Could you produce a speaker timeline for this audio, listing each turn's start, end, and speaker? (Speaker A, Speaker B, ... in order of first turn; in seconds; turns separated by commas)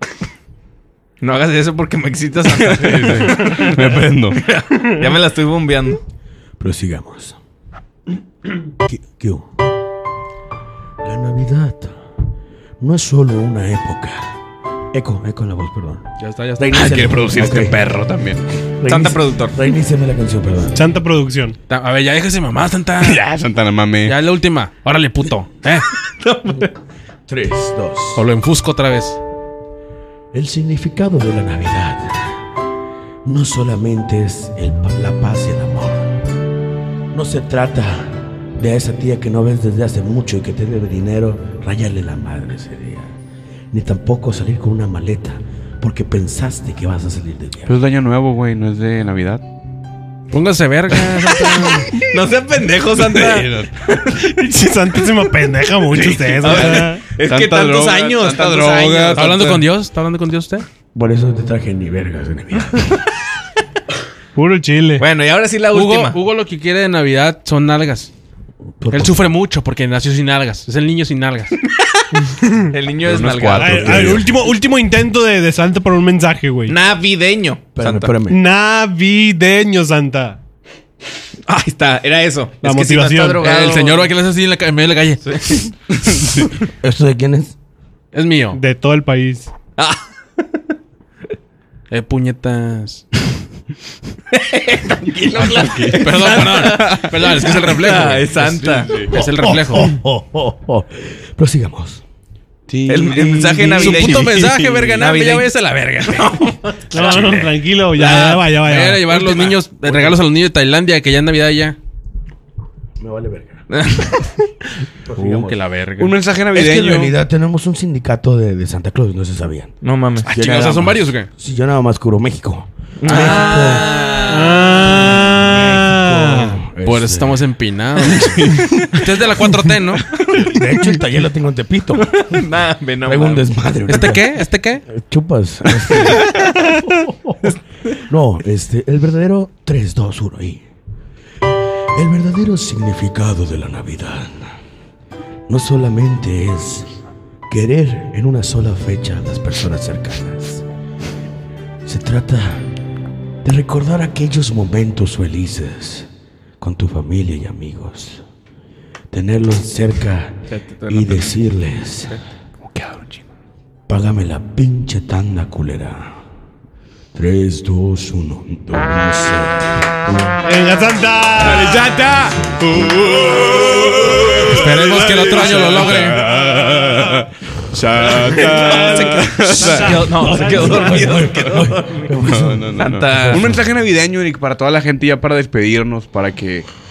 Speaker A: 1.2-6.0, Speaker B: 2.5-4.4, Speaker C: 2.8-3.3, Speaker D: 6.6-7.4, Speaker D: 8.8-9.5, Speaker D: 11.0-11.9, Speaker D: 12.8-14.2, Speaker D: 14.9-17.8, Speaker C: 16.2-17.1, Speaker B: 16.7-18.5, Speaker D: 18.8-20.8, Speaker A: 18.9-19.6, Speaker E: 20.7-21.5, Speaker C: 21.7-23.2, Speaker B: 23.0-24.1, Speaker C: 24.0-25.9, Speaker A: 26.2-26.7, Speaker D: 27.3-28.2, Speaker C: 28.1-29.2, Speaker D: 30.3-32.4, Speaker D: 33.2-36.2, Speaker D: 37.1-43.1, Speaker D: 43.7-47.8, Speaker B: 47.6-49.4, Speaker C: 50.3-51.9, Speaker A: 51.6-54.4, Speaker B: 53.0-53.7, Speaker E: 54.2-57.0, Speaker B: 56.0-59.6, Speaker A: 56.3-59.4, Speaker C: 59.1-60.7, Speaker D: 60.9-63.0, Speaker E: 64.3-65.0, Speaker A: 65.0-66.2, Speaker C: 65.7-68.1, Speaker D: 68.8-69.2, Speaker C: 68.9-71.5, Speaker E: 72.3-72.7, Speaker A: 72.7-74.2, Speaker B: 73.0-74.3, Speaker E: 73.5-76.7, Speaker D: 74.0-74.2, Speaker A: 76.7-78.1, Speaker D: 77.8-78.4, Speaker E: 78.3-80.4, Speaker A: 81.5-84.1, Speaker E: 82.6-83.4, Speaker C: 83.4-85.6, Speaker A: 85.2-85.7, Speaker D: 86.3-87.5, Speaker C: 88.1-88.6, Speaker E: 88.5-89.5, Speaker A: 89.8-90.0, Speaker C: 91.9-93.0, Speaker A: 94.3-99.0, Speaker B: 95.3-96.7, Speaker C: 95.4-99.9, Speaker B: 98.6-99.1, Speaker D: 99.1-102.0, Speaker B: 102.7-105.0, Speaker A: 102.8-107.5, Speaker C: 103.6-106.2, Speaker E: 106.9-109.2, Speaker C: 107.9-111.8, Speaker D: 109.8-110.2, Speaker D: 113.0-113.6, Speaker A: 113.7-114.4, Speaker D: 115.0-115.6, Speaker C: 115.1-116.2, Speaker B: 116.0-117.2, Speaker D: 116.5-119.7, Speaker A: 119.8-120.3, Speaker C: 120.2-121.3, Speaker D: 120.3-124.0, Speaker A: 123.0-124.9, Speaker E: 124.2-126.6, Speaker D: 125.3-127.4, Speaker C: 126.8-130.1, Speaker B: 128.2-128.8, Speaker D: 130.3-132.2, Speaker A: 132.0-133.5, Speaker D: 133.0-134.3, Speaker C: 133.9-134.8, Speaker D: 134.8-136.4, Speaker A: 135.9-136.4, Speaker D: 137.0-137.4, Speaker A: 137.4-137.9, Speaker D: 138.0-140.6, Speaker D: 141.9-144.4, Speaker D: 145.5-146.9, Speaker D: 147.5-150.6, Speaker D: 151.8-152.6, Speaker D: 153.4-156.1, Speaker D: 156.6-158.2, Speaker D: 159.1-162.2, Speaker A: 160.5-161.4, Speaker D: 163.9-166.1, Speaker D: 167.1-169.7, Speaker E: 170.4-172.2, Speaker A: 171.5-172.2, Speaker B: 171.7-180.2, Speaker D: 172.3-172.9, Speaker C: 174.5-176.2, Speaker A: 178.0-182.1, Speaker E: 179.6-180.9, Speaker D: 179.9-182.8, Speaker B: 182.2-186.7, Speaker A: 182.7-183.5